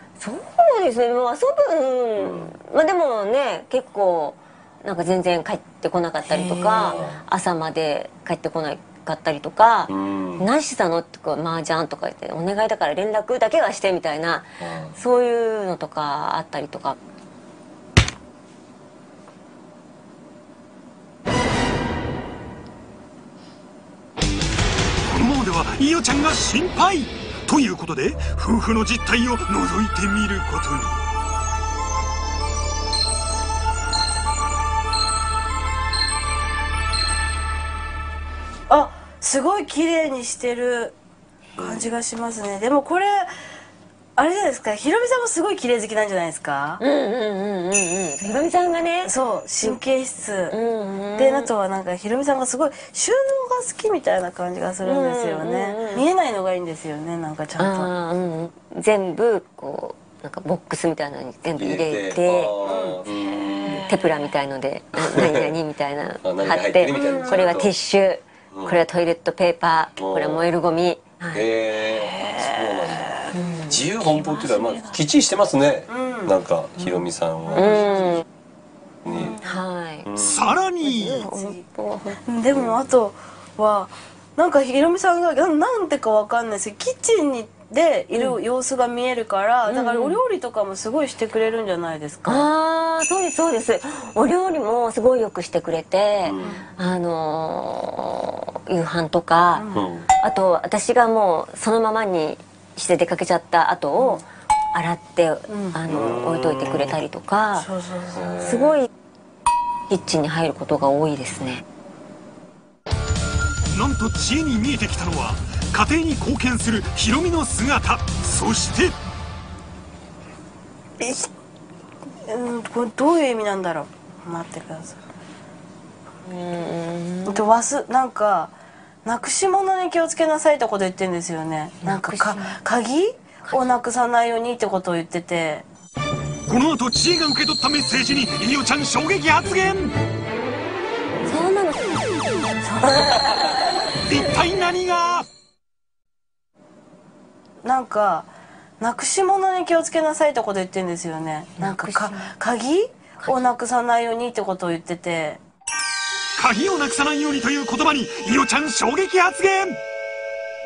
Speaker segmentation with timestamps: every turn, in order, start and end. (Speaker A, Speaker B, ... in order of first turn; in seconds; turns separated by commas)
Speaker A: 0.2-17.0, Speaker B: 2.2-2.5, Speaker C: 6.3-7.0, Speaker B: 6.7-7.2, Speaker B: 9.9-10.5, Speaker B: 14.6-15.0, Speaker D: 25.1-31.0, Speaker C: 38.7-40.9, Speaker C: 41.6-43.3, Speaker C: 44.2-46.8, Speaker A: 46.8-49.8, Speaker C: 49.0-50.5, Speaker A: 50.5-51.5, Speaker C: 51.1-57.9, Speaker A: 54.8-56.0, Speaker A: 57.6-62.5, Speaker B: 61.6-63.9, Speaker C: 62.6-63.0, Speaker A: 63.8-71.4, Speaker B: 65.0-65.5, Speaker B: 66.2-67.7, Speaker C: 66.9-67.6, Speaker B: 68.5-68.8, Speaker B: 70.0-70.5, Speaker B: 71.3-78.2, Speaker C: 75.9-76.3, Speaker A: 77.5-78.2, Speaker B: 79.0-79.4, Speaker A: 79.4-80.1, Speaker B: 80.0-80.4, Speaker D: 80.2-81.3, Speaker C: 81.1-81.6, Speaker A: 81.1-82.2, Speaker C: 82.1-92.5, Speaker A: 89.7-90.2, Speaker A: 92.2-99.6, Speaker B: 96.2-96.5, Speaker C: 99.5-99.8, Speaker B: 99.7-100.1, Speaker A: 100.2-107.7, Speaker C: 104.0-104.2, Speaker C: 105.5-105.8, Speaker B: 105.9-107.0, Speaker C: 107.5-108.3, Speaker B: 108.1-108.8, Speaker A: 108.4-108.9, Speaker A: 109.9-111.6, Speaker D: 113.7-118.9, Speaker C: 121.0-121.3, Speaker C: 122.2-125.0, Speaker A: 126.2-127.5, Speaker C: 127.3-128.5, Speaker C: 129.0-135.7, Speaker A: 131.8-132.6, Speaker D: 136.5-139.9, Speaker A: 141.3-142.0, Speaker C: 142.6-143.6, Speaker D: 144.1-145.3, Speaker C: 147.6-148.3, Speaker C: 148.8-155.4, Speaker A: 151.6-152.2, Speaker D: 156.4-159.8